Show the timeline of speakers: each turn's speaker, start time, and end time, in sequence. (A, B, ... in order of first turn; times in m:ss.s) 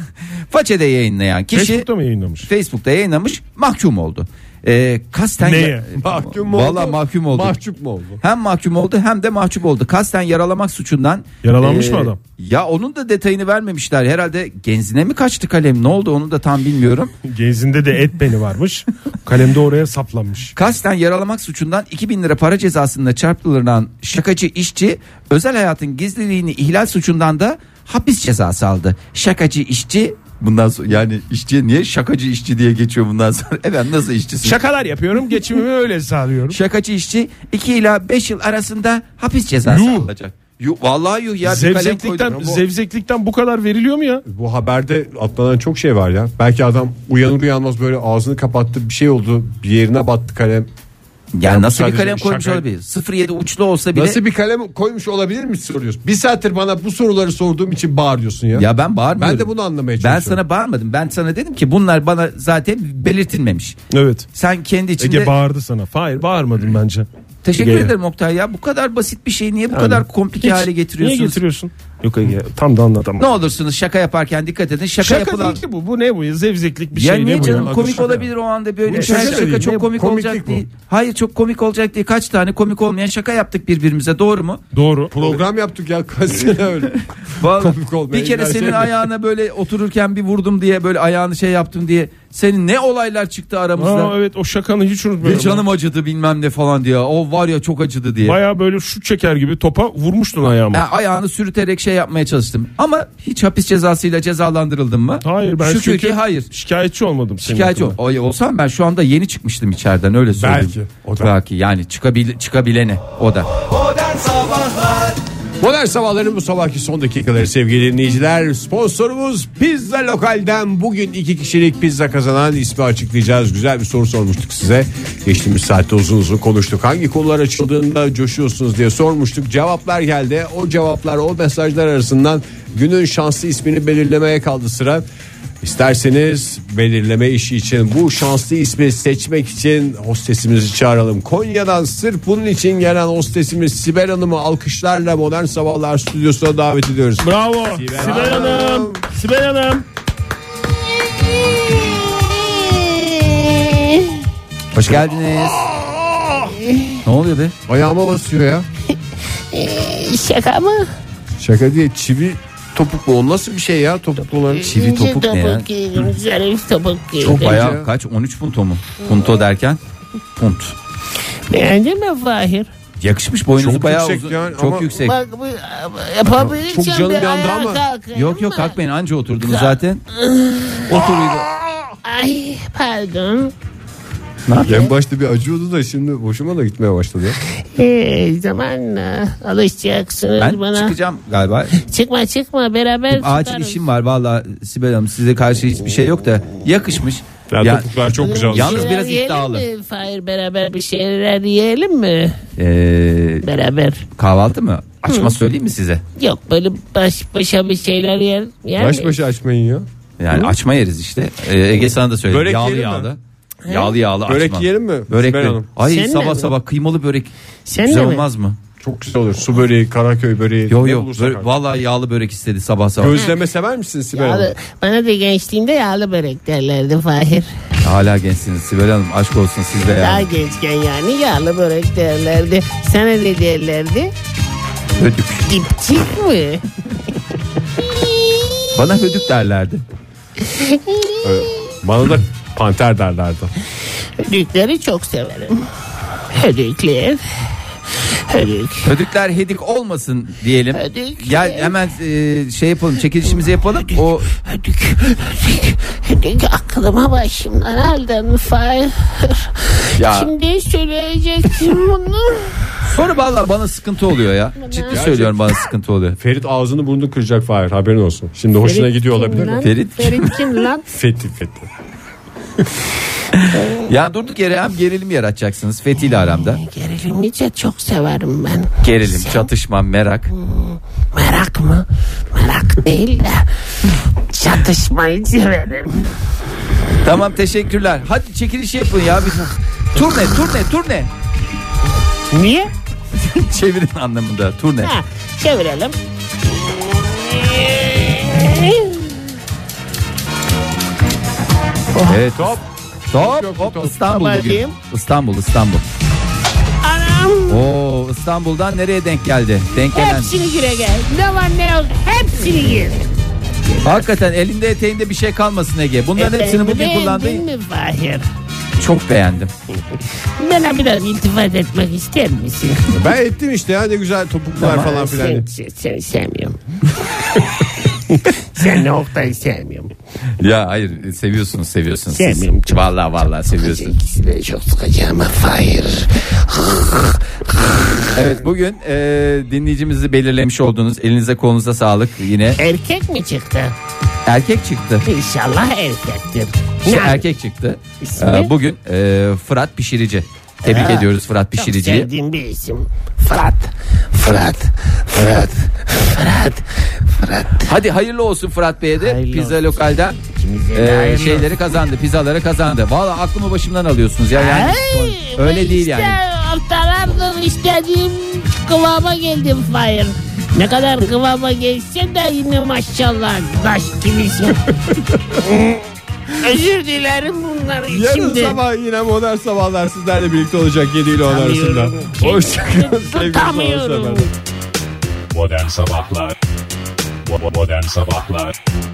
0:00.5-0:01.9 A
0:01.5-0:02.5 B
0:02.4-0:07.5 A
0:05.4-0:05.8 B
0:05.9-0:08.2 C
0:08.2-0:17.1 A
0:11.4-0:12.2 B
0:17.2-0:20.5 B
0:20.5-0:34.6 A
0:34.4-0:36.6 B
0:36.5-0:42.6 A
0:39.7-0:40.1 B
0:41.4-0:44.2 B
0:44.2-0:50.7 C
0:51.3-0:54.2 A
0:51.4-0:52.6 C
0:53.9-1:00.4 C
0:58.5-1:03.8 A
1:03.9-1:04.2 B
1:04.3-1:05.3 A
1:05.0-1:07.1 B
1:07.4-1:11.4 A
1:07.6-1:07.9 B
1:09.7-1:13.3 B
1:13.2-1:15.6 A
1:15.0-1:17.7 B
1:16.9-1:24.6 A
1:17.4-1:18.3 C
1:18.8-1:20.6 C
1:19.0-1:19.5 B
1:24.7-1:25.2 B
1:25.1-1:29.0 C
1:27.3-1:34.1 A
1:33.8-1:35.6 B
1:35.2-1:38.4 A
1:38.2-1:40.8 B
1:40.7-1:46.5 A
1:45.2-1:48.0 B
1:47.4-1:53.5 A
1:50.4-1:51.3 C
1:55.6-2:15.0 C
2:15.6-2:29.0 C
2:27.2-2:29.8 B
2:31.5-2:34.2 D
2:34.7-2:35.6 A
2:36.5-2:37.0 D
2:37.0-2:37.5 A
2:37.7-2:38.7 C
2:39.5-2:40.8 D
2:41.4-2:44.8 C
2:44.5-2:47.6 D
2:44.7-2:45.7 A
2:47.2-2:49.8 A
2:47.2-2:47.9 C
2:50.4-2:50.7 A
2:51.5-2:52.7 D
2:53.0-2:55.1 A
2:53.6-2:54.9 C
2:54.9-2:58.7 D
2:56.2-2:57.8 C
2:58.1-3:00.0 A
2:59.4-3:01.1 D
3:00.9-3:01.5 A
3:02.0-3:03.5 D
3:04.5-3:04.8 A
3:04.6-3:07.4 C
3:07.7-3:11.0 D
3:10.4-3:11.8 A
3:11.7-3:13.8 D
3:13.1-3:19.6 A
3:17.5-3:18.9 C
3:18.2-3:22.4 D
3:22.6-3:23.4 A
3:23.4-3:24.0 D
3:24.2-3:26.0 A
3:25.0-3:25.3 D
3:26.2-3:29.2 D
3:28.8-3:29.8 C
3:30.2-3:37.3 A
3:32.3-3:33.1 C
3:33.6-3:33.9 D
3:34.2-3:35.7 C
3:35.8-3:36.5 D
3:37.6-3:38.2 D
3:37.8-3:38.6 A
3:38.8-3:41.5 C
3:40.7-3:43.2 A
3:43.0-3:44.5 C
3:44.1-3:47.5 D
3:47.8-3:50.3 A
3:49.9-3:54.1 D
3:55.0-3:55.5 A
3:55.5-3:56.6 D
3:58.7-3:59.8 A
4:00.5-4:01.5 D
4:01.2-4:03.5 C
4:04.2-4:05.6 D
4:06.3-4:07.2 D
4:08.3-4:08.9 D
4:08.8-4:14.3 A
4:10.7-4:11.7 D
4:14.3-4:22.5 D
4:20.0-4:20.3 A
4:22.8-4:26.2 A
4:24.6-4:25.0 D
4:24.9-4:25.4 C
4:26.2-4:29.6 C
4:28.6-4:30.8 D
4:29.6-4:30.4 A
4:30.9-4:31.7 C
4:33.3-4:36.6 A
4:36.3-4:39.5 D
4:38.8-4:40.3 A
4:40.5-4:43.4 D
4:44.3-4:46.0 D
4:47.0-4:51.1 A
4:52.3-4:52.7 D
4:53.2-4:54.9 A
4:54.8-4:56.0 D
4:56.5-4:59.1 D
5:01.9-5:02.2 D
5:02.0-5:05.8 A
5:02.3-5:02.6 C
5:03.1-5:04.0 C
5:04.0-5:04.8 D
5:06.8-5:07.7 D
5:07.5-5:10.3 A
5:09.8-5:13.0 D
5:13.7-5:14.1 D
5:13.8-5:17.4 A
5:16.2-5:18.2 D
5:18.8-5:19.5 A
5:20.4-5:23.0 D
5:22.9-5:25.5 C
5:24.6-5:25.0 A
5:24.8-5:26.6 D
5:28.3-5:29.9 D
5:30.4-5:33.9 A
5:32.1-5:32.8 D
5:33.5-5:38.0 D
5:38.1-5:42.6 A
5:42.6-5:43.7 D
5:44.2-5:45.1 A
5:45.1-5:47.2 D
5:46.8-5:52.1 A
5:48.0-5:48.5 D
5:50.6-5:57.7 D
5:57.6-6:00.2 A
5:59.0-6:01.5 D
6:00.7-6:06.2 A
6:04.3-6:14.7 D
6:14.9-6:15.2 C
6:16.4-6:18.6 D
6:17.9-6:24.3 C
6:21.3-6:24.3 D
6:25.3-6:26.3 E
6:27.2-6:28.5 E